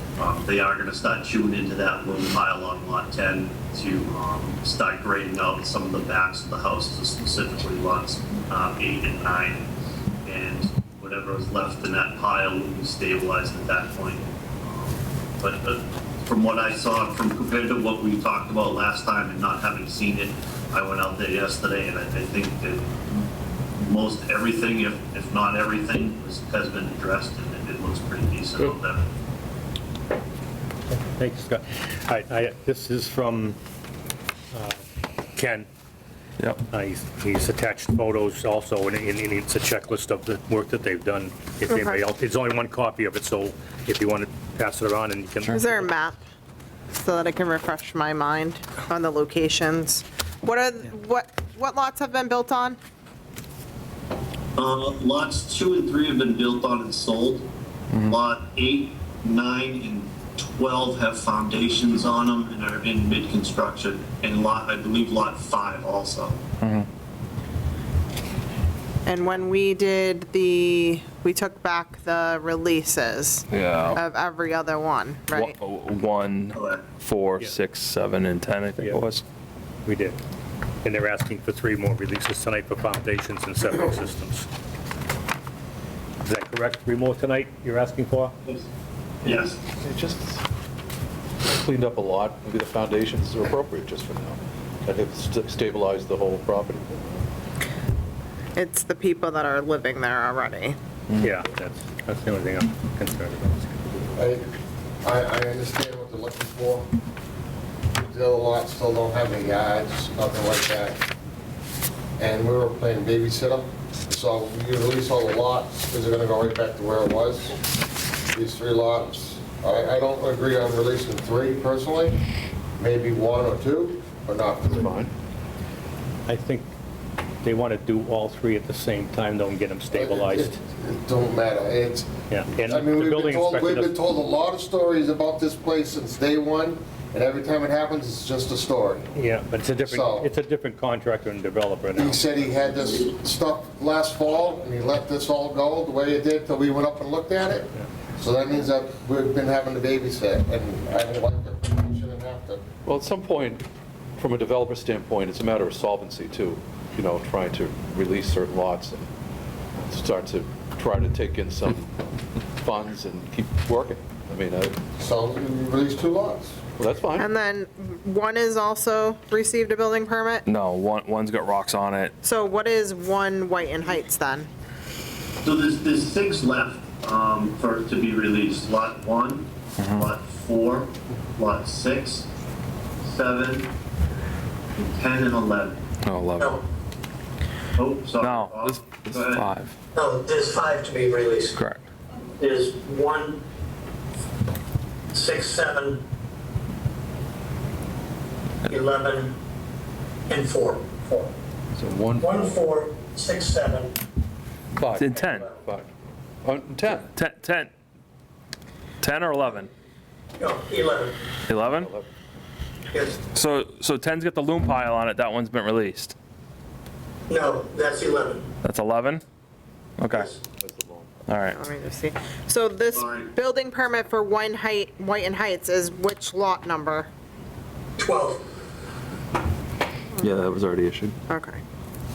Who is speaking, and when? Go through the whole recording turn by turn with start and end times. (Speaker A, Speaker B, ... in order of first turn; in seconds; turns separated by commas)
Speaker A: 0.2-9.7, Speaker A: 10.2-23.0, Speaker A: 23.8-29.1, Speaker B: 30.9-33.6, Speaker B: 34.5-34.8, Speaker B: 35.4-35.7, Speaker B: 36.7-45.9, Speaker C: 41.7-42.1, Speaker C: 45.5-46.2, Speaker C: 46.9-52.8, Speaker A: 54.6-57.5, Speaker A: 58.0-66.4, Speaker D: 66.6-66.9, Speaker C: 69.1-75.6, Speaker D: 73.5-74.0, Speaker D: 75.3-79.2, Speaker A: 76.5-76.8, Speaker B: 79.8-80.2, Speaker B: 80.8-84.5, Speaker B: 86.2-88.3, Speaker A: 89.2-89.6, Speaker E: 89.3-90.5, Speaker E: 91.4-97.3, Speaker C: 98.6-100.8, Speaker B: 101.2-103.7, Speaker F: 104.1-104.5, Speaker F: 105.0-106.9, Speaker F: 108.0-111.0, Speaker F: 112.2-117.6, Speaker F: 118.3-122.2, Speaker F: 122.8-124.9, Speaker E: 124.7-125.1, Speaker B: 126.3-126.7, Speaker B: 127.4-130.5, Speaker F: 129.9-139.2, Speaker B: 132.3-133.9, Speaker B: 139.2-142.8, Speaker F: 139.8-140.3, Speaker F: 141.9-152.6, Speaker E: 152.8-153.6, Speaker E: 154.2-159.1, Speaker E: 159.8-164.8, Speaker F: 165.0-166.6, Speaker E: 166.8-167.3, Speaker C: 167.2-170.5, Speaker D: 170.5-172.1, Speaker C: 172.2-174.5, Speaker A: 175.4-182.3, Speaker D: 179.8-180.1, Speaker A: 183.0-183.7, Speaker A: 184.8-185.8, Speaker D: 186.1-186.6, Speaker A: 187.8-189.5, Speaker D: 188.2-189.8, Speaker G: 189.9-191.6, Speaker D: 191.6-191.8, Speaker G: 192.2-193.4, Speaker G: 195.1-196.1, Speaker G: 198.7-199.4, Speaker G: 200.3-201.3, Speaker E: 201.8-202.7, Speaker G: 202.2-204.0, Speaker E: 204.8-205.9, Speaker D: 204.9-205.5, Speaker E: 206.4-207.1, Speaker D: 206.9-207.7, Speaker D: 209.0-209.7, Speaker G: 210.4-211.2, Speaker D: 211.5-211.9, Speaker E: 211.6-212.1, Speaker G: 212.9-213.2, Speaker D: 213.3-216.2, Speaker G: 217.3-218.5, Speaker D: 218.6-219.2, Speaker D: 220.0-220.3, Speaker G: 220.1-220.4, Speaker E: 220.6-221.1, Speaker D: 221.3-221.6, Speaker C: 221.5-227.1, Speaker A: 222.9-223.3, Speaker G: 228.0-228.5, Speaker D: 230.2-231.2, Speaker C: 231.3-231.6